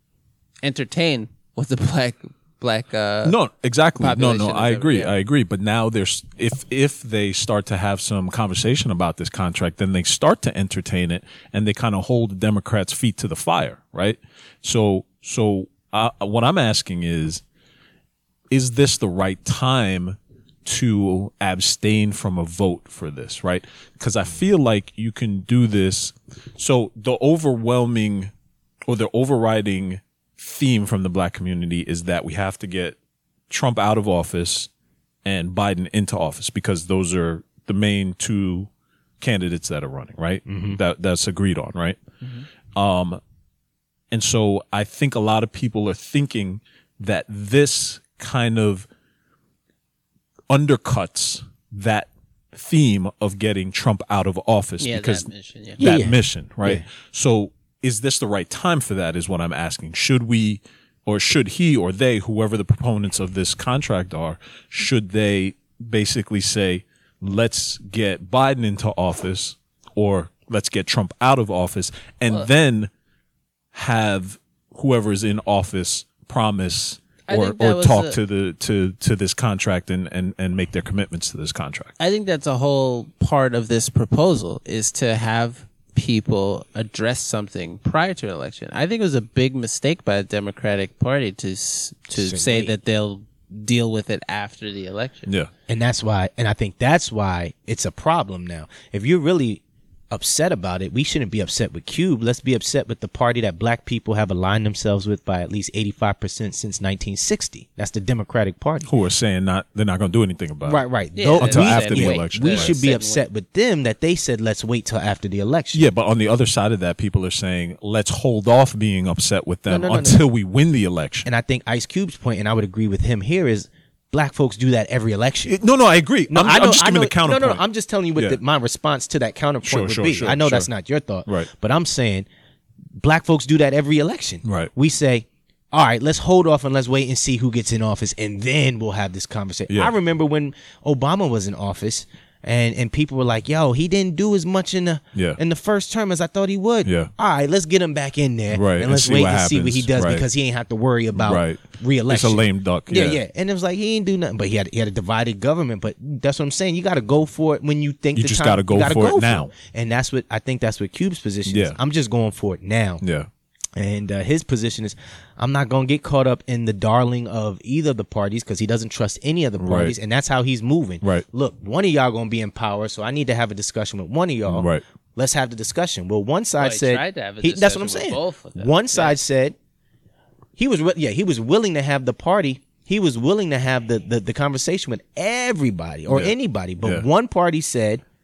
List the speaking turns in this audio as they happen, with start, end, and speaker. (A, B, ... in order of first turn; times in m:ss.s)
0:00.6-0:03.4 A
0:03.2-0:17.4 B
0:04.0-0:05.1 A
0:18.5-0:28.3 B
0:28.9-0:33.0 B
0:33.5-0:34.7 B
0:35.2-0:38.7 B
0:39.2-0:42.0 B
0:40.5-0:40.8 C
0:42.8-0:43.2 B
0:44.1-0:48.9 B
0:50.5-0:55.3 B
0:54.8-0:55.8 A
0:55.8-1:12.9 B
0:55.8-0:56.8 C
1:13.7-1:21.9 B
1:17.3-1:18.2 A
1:22.0-1:35.3 A
1:32.2-1:32.7 C
1:35.7-1:48.9 C
1:48.9-1:50.8 B
1:50.6-1:55.9 C
1:51.2-1:53.2 A
1:51.4-1:52.7 B
1:55.7-2:01.3 B
1:59.7-2:00.2 C
2:01.3-2:05.6 C
2:05.5-2:07.6 B
2:06.3-2:12.3 C
2:09.6-2:10.7 B
2:13.0-2:43.0 C
2:14.4-2:14.7 B
2:28.5-2:30.2 B
2:31.2-2:33.2 B
2:38.2-2:39.5 B
2:41.5-2:41.8 B
2:43.0-2:43.3 B
2:43.8-2:59.6 C
2:49.6-2:50.0 B
2:54.5-2:54.8 B
2:56.6-2:59.2 A
3:00.6-3:08.0 C
3:06.1-3:07.1 B